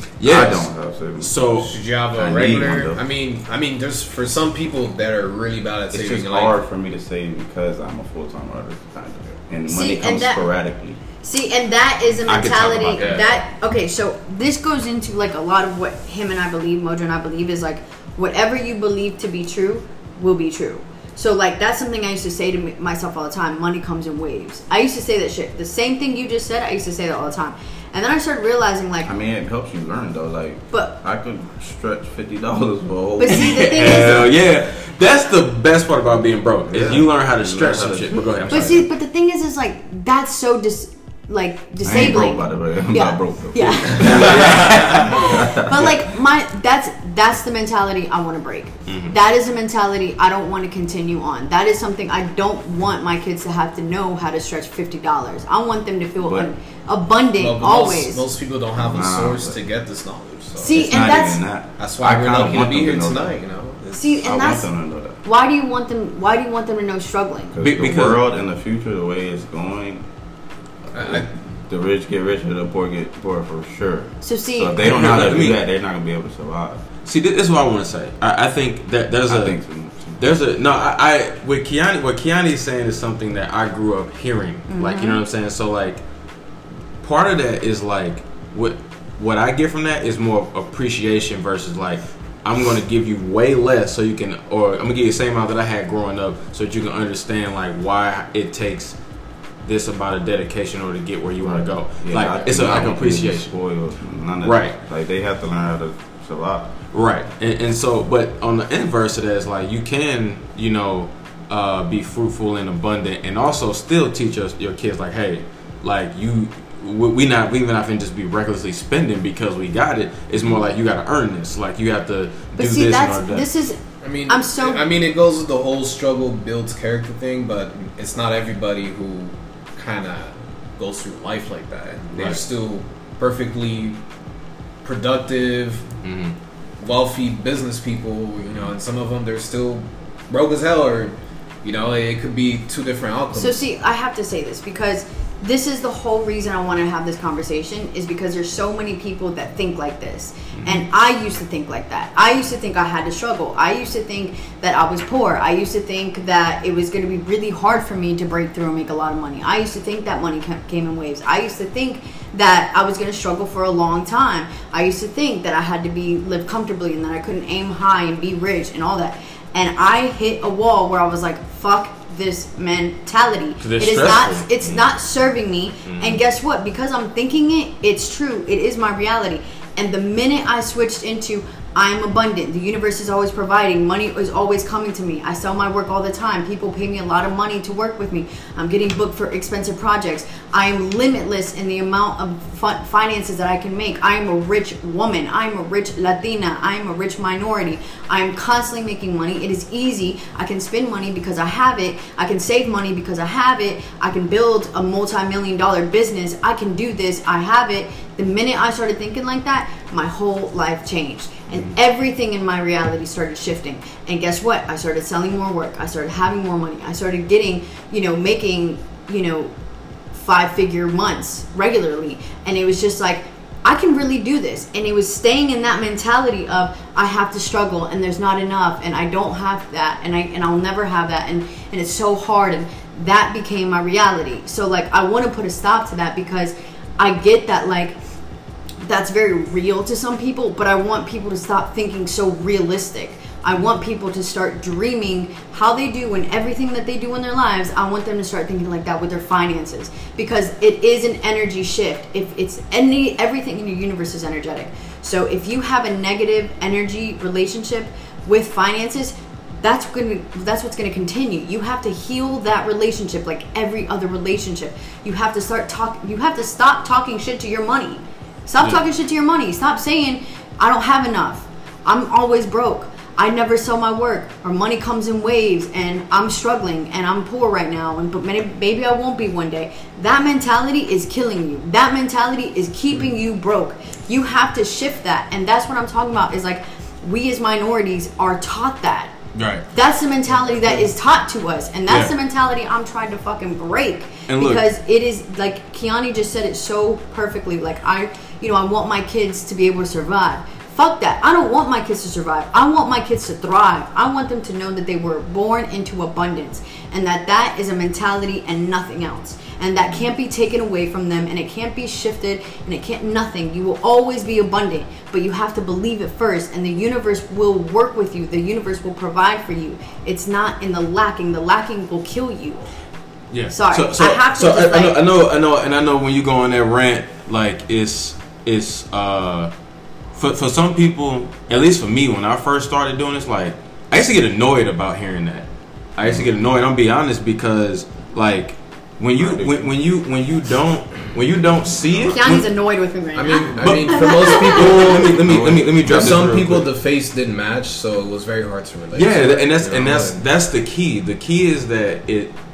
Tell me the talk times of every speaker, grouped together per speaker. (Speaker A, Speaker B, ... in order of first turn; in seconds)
Speaker A: 0.2-1.7, 12.2-13.3, 33.3-38.9, 44.1-45.1, 48.9-49.2, 67.6-68.2, 74.8-75.6, 77.0-79.6, 80.2-86.0, 87.0-99.0, 99.6-103.5, 104.4-104.8, 106.9-123.5, 132.2-132.4, 136.0-136.3, 150.5-150.8, 173.6-174.8, 175.8-176.2, 289.3-289.6, 294.3-294.6, 323.3-329.5, 330.1-342.4, 343.6-346.7, 348.9-352.3
Speaker B: 0.2-1.6, 2.1-3.0, 5.9-11.0, 29.0-34.3, 36.7-38.5, 41.8-46.1, 56.2-56.5, 58.8-59.6, 60.7-63.4, 64.2-65.2, 67.5-70.0, 70.9-76.9, 79.3-80.2, 101.4-106.8, 339.2-339.7, 345.2-346.1
Speaker C: 1.6-6.5, 44.3-44.5, 57.4-60.9, 61.8-64.2, 70.9-71.3, 124.0-134.0, 134.8-135.9, 136.8-143.6, 290.3-290.9, 343.1-350.2
Speaker D: 9.7-10.5, 11.2-29.1, 30.7-31.0, 33.2-34.3, 38.5-58.2, 60.6-61.4, 63.9-64.7, 65.2-67.5, 74.2-74.9, 84.7-85.2, 122.5-124.8, 143.3-219.5, 220.1-238.0, 238.8-289.1, 289.7-322.7, 323.5-325.0, 342.1-345.1